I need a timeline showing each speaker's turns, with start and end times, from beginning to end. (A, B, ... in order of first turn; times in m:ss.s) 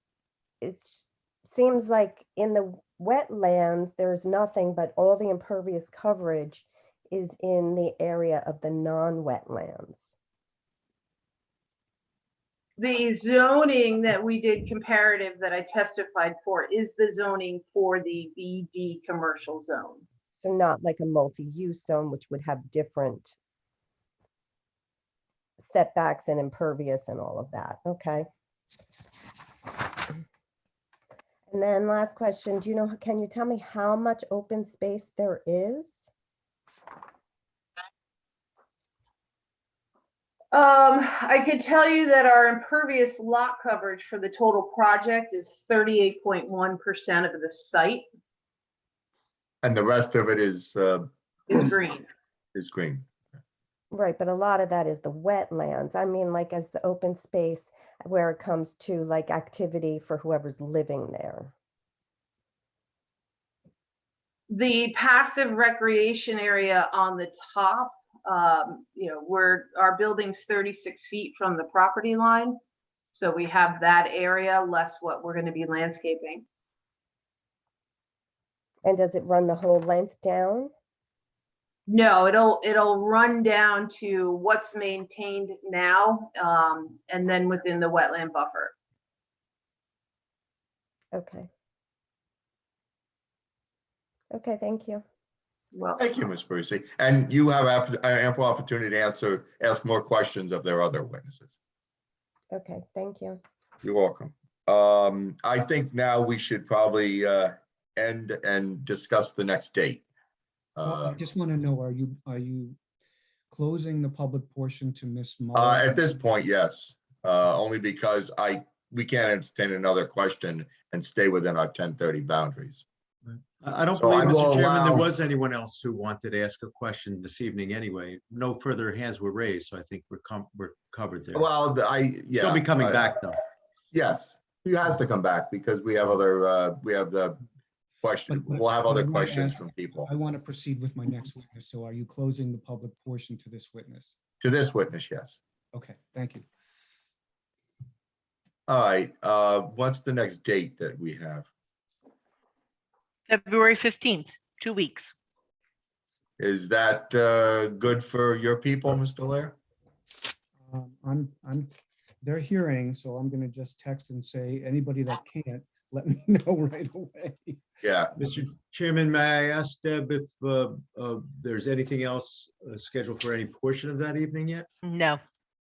0:00.6-0:10.2 A
0:12.8-0:20.0 B
0:20.4-0:23.4 A
0:25.6-0:28.3 A
0:31.5-0:36.1 A
0:40.5-0:48.1 B
0:49.6-0:51.1 C
0:51.5-0:52.1 B
0:52.5-0:53.1 C
0:53.9-1:01.5 A
1:04.5-1:12.6 B
1:13.1-1:16.5 B
1:18.8-1:20.7 A
1:21.9-1:28.7 B
1:31.1-1:31.5 A
1:34.3-1:35.0 A
1:35.7-1:36.0 B
1:36.0-1:41.6 C
1:42.5-1:43.4 A
1:43.8-1:50.0 C
1:50.8-1:51.2 C
1:50.8-1:52.8 D
1:53.5-1:56.1 D
1:55.6-2:02.8 C
2:03.3-2:11.4 E
2:04.0-2:05.1 C
2:11.3-2:13.1 C
2:12.4-2:13.4 E
2:13.9-2:17.4 C
2:18.0-2:20.1 C
2:18.3-2:24.2 D
2:24.4-2:25.4 C
2:25.7-2:26.4 D
2:28.7-2:31.5 C
2:33.3-2:35.1 F
2:36.4-2:39.6 C
2:40.6-2:41.7 D
2:42.2-2:47.6 D
2:47.8-2:48.1 C
2:48.2-2:54.7 E
2:54.8-2:55.2 F